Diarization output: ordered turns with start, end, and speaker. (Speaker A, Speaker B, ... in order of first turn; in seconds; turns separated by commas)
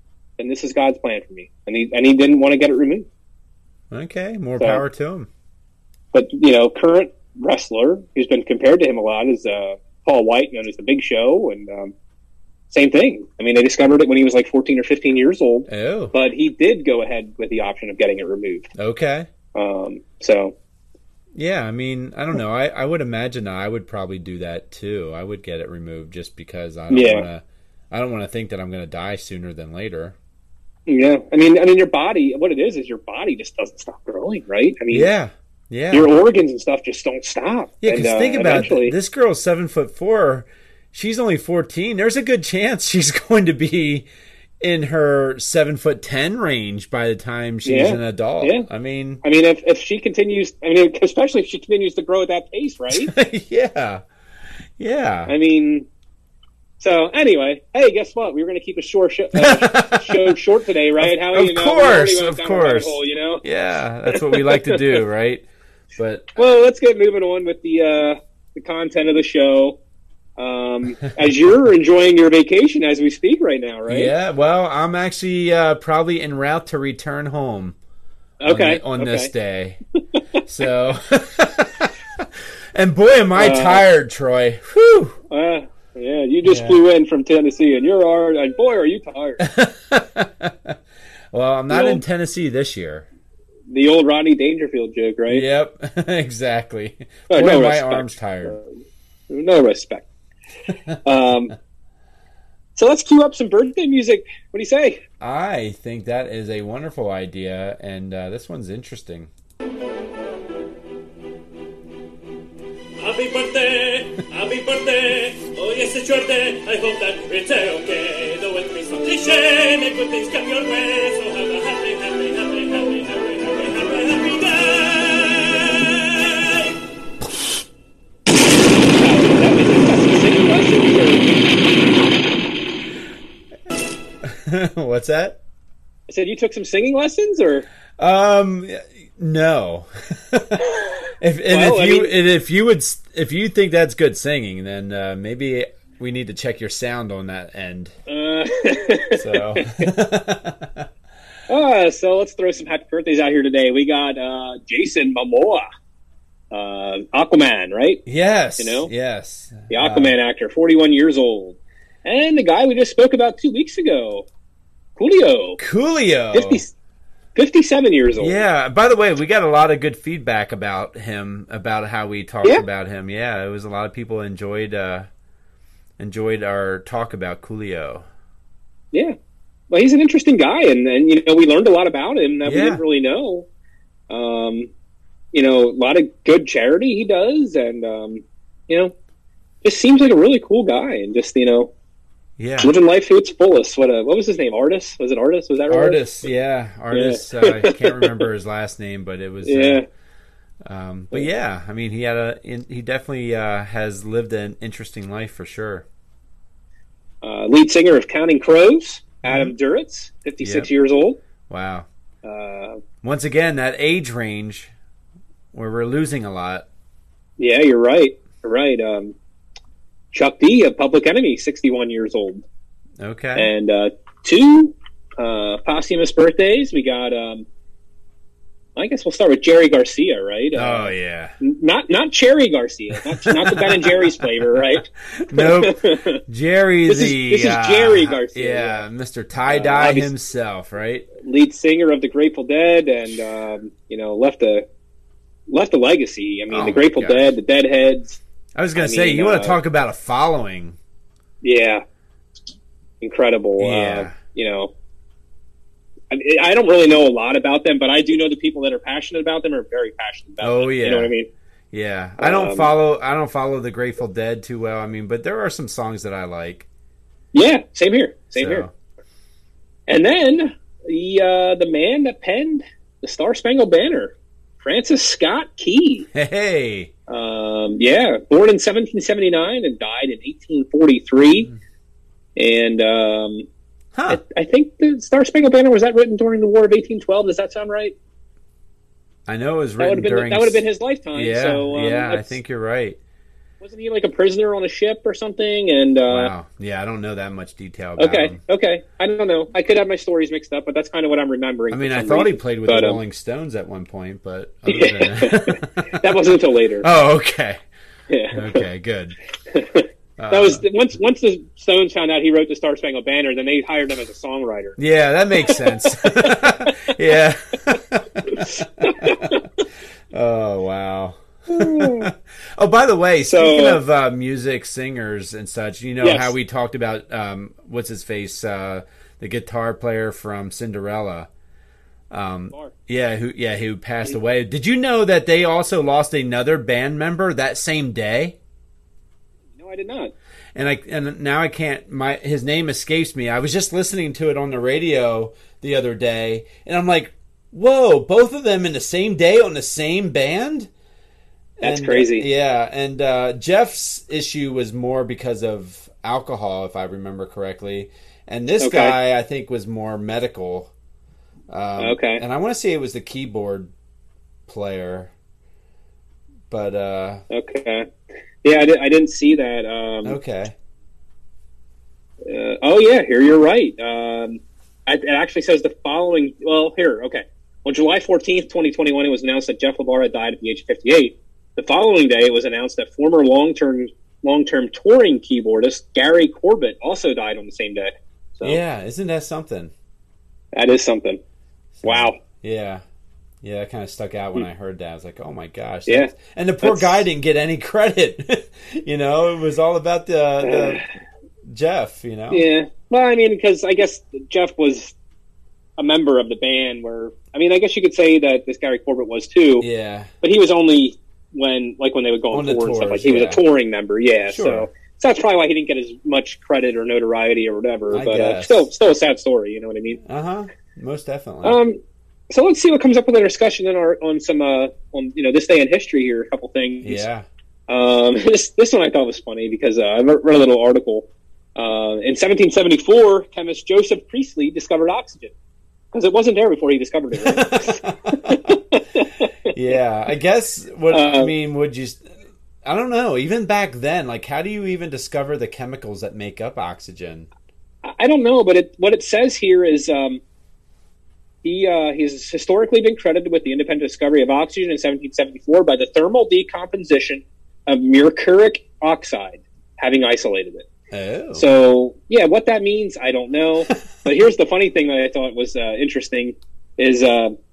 Speaker A: 0.4-3.1, Speaker B: 3.9-5.3, Speaker A: 6.1-11.9, Speaker A: 12.7-18.7, Speaker B: 15.7-16.1, Speaker B: 18.8-19.3, Speaker A: 19.5-20.5, Speaker B: 21.3-30.1, Speaker A: 26.9-27.3, Speaker A: 30.9-35.1, Speaker B: 34.9-36.1, Speaker A: 35.9-38.9, Speaker B: 37.8-44.1, Speaker B: 44.6-49.2, Speaker A: 47.6-48.6, Speaker A: 49.2-53.1, Speaker B: 52.9-54.0, Speaker B: 54.8-55.3, Speaker A: 55.3-55.9, Speaker A: 56.8-63.4, Speaker B: 59.4-60.4, Speaker B: 61.0-66.3, Speaker A: 64.1-65.0, Speaker A: 66.3-69.8, Speaker A: 70.4-74.1, Speaker B: 73.9-77.8, Speaker A: 78.4-79.3, Speaker B: 78.5-79.8, Speaker B: 80.4-85.2, Speaker A: 83.3-83.8, Speaker A: 85.3-89.4, Speaker B: 86.4-86.8, Speaker B: 89.4-90.8, Speaker B: 91.3-93.0, Speaker A: 91.7-92.0, Speaker A: 93.7-95.4, Speaker B: 95.3-98.6, Speaker A: 97.3-98.7, Speaker A: 99.3-100.1, Speaker A: 101.0-101.5, Speaker A: 102.8-105.0, Speaker B: 105.2-109.3, Speaker C: 113.0-126.8, Speaker A: 128.9-131.4, Speaker B: 134.2-135.4, Speaker A: 136.1-137.7, Speaker B: 138.0-147.9, Speaker A: 141.5-142.1, Speaker A: 148.1-149.9, Speaker B: 149.1-150.9, Speaker A: 151.5-155.6, Speaker A: 156.5-158.0, Speaker B: 158.1-160.1, Speaker A: 158.6-158.9, Speaker A: 159.7-164.3, Speaker A: 165.0-165.6, Speaker B: 165.6-166.6, Speaker A: 166.3-166.7, Speaker A: 167.3-168.4, Speaker B: 168.2-175.1, Speaker B: 176.0-178.1, Speaker A: 179.7-183.5, Speaker B: 182.4-182.8, Speaker A: 184.1-184.7, Speaker A: 185.3-188.9, Speaker A: 189.6-191.7, Speaker B: 192.4-192.7, Speaker A: 192.6-196.2, Speaker B: 195.7-199.8, Speaker A: 196.9-198.2, Speaker A: 199.4-199.8, Speaker B: 200.6-205.8, Speaker A: 207.2-211.2, Speaker B: 209.2-209.5, Speaker B: 210.4-210.7, Speaker B: 211.5-211.9, Speaker A: 212.2-212.8, Speaker B: 213.0-214.7, Speaker B: 215.5-216.7, Speaker A: 217.4-219.2, Speaker A: 220.1-222.4, Speaker B: 223.0-223.5, Speaker A: 223.3-227.4, Speaker A: 228.8-236.2, Speaker B: 230.5-231.3, Speaker B: 233.1-241.1, Speaker A: 236.9-238.8, Speaker A: 239.5-240.1, Speaker A: 241.2-244.7, Speaker A: 245.5-248.2, Speaker B: 246.5-247.3, Speaker B: 248.6-250.8, Speaker A: 248.8-249.6, Speaker A: 251.4-251.8, Speaker A: 253.0-254.7, Speaker B: 253.6-254.2, Speaker A: 256.1-261.3, Speaker B: 260.4-261.1, Speaker B: 261.7-266.7, Speaker A: 262.2-262.7, Speaker A: 267.3-268.7, Speaker B: 268.4-268.7, Speaker A: 269.9-276.1, Speaker B: 276.1-276.9, Speaker A: 277.1-281.5, Speaker A: 282.4-283.5, Speaker B: 283.9-284.2, Speaker A: 284.1-287.9, Speaker B: 289.3-293.0, Speaker A: 289.8-292.4, Speaker A: 293.6-296.3, Speaker B: 296.1-298.4, Speaker A: 298.0-303.0, Speaker B: 301.7-306.1, Speaker A: 304.6-306.9, Speaker B: 306.8-307.6, Speaker A: 308.1-308.6, Speaker B: 308.3-309.1, Speaker A: 309.5-314.8, Speaker B: 310.2-310.6, Speaker B: 314.8-319.4, Speaker A: 315.4-316.7, Speaker A: 318.3-319.4, Speaker B: 320.1-331.3, Speaker A: 321.5-322.1, Speaker A: 323.2-323.8, Speaker A: 326.0-326.3, Speaker B: 332.1-338.4, Speaker A: 339.5-340.1, Speaker B: 340.5-350.7, Speaker B: 351.6-360.7, Speaker A: 351.6-352.2, Speaker A: 358.6-358.9, Speaker B: 361.5-363.7, Speaker A: 361.8-362.2, Speaker B: 364.5-365.1, Speaker B: 366.5-367.2, Speaker A: 367.3-367.9, Speaker A: 368.4-370.2, Speaker B: 370.0-370.5, Speaker A: 372.2-388.6, Speaker B: 388.4-389.7, Speaker A: 390.5-391.2, Speaker B: 391.8-392.8, Speaker A: 391.8-392.2, Speaker B: 393.4-400.8, Speaker A: 396.6-397.0, Speaker A: 400.4-400.8, Speaker B: 401.5-402.4, Speaker A: 402.3-404.9, Speaker A: 405.8-409.7, Speaker B: 409.6-410.1, Speaker A: 410.2-420.0, Speaker B: 412.3-413.4, Speaker B: 414.3-414.7, Speaker B: 417.9-418.7, Speaker B: 420.0-421.6, Speaker A: 421.4-421.8, Speaker A: 422.3-427.1, Speaker B: 426.8-427.2, Speaker A: 427.7-435.3, Speaker A: 435.9-439.3, Speaker B: 437.1-438.6, Speaker B: 439.5-442.0, Speaker A: 440.9-441.3, Speaker B: 442.6-447.3, Speaker A: 447.8-450.2, Speaker A: 451.4-460.7, Speaker B: 460.9-461.4, Speaker A: 461.3-467.4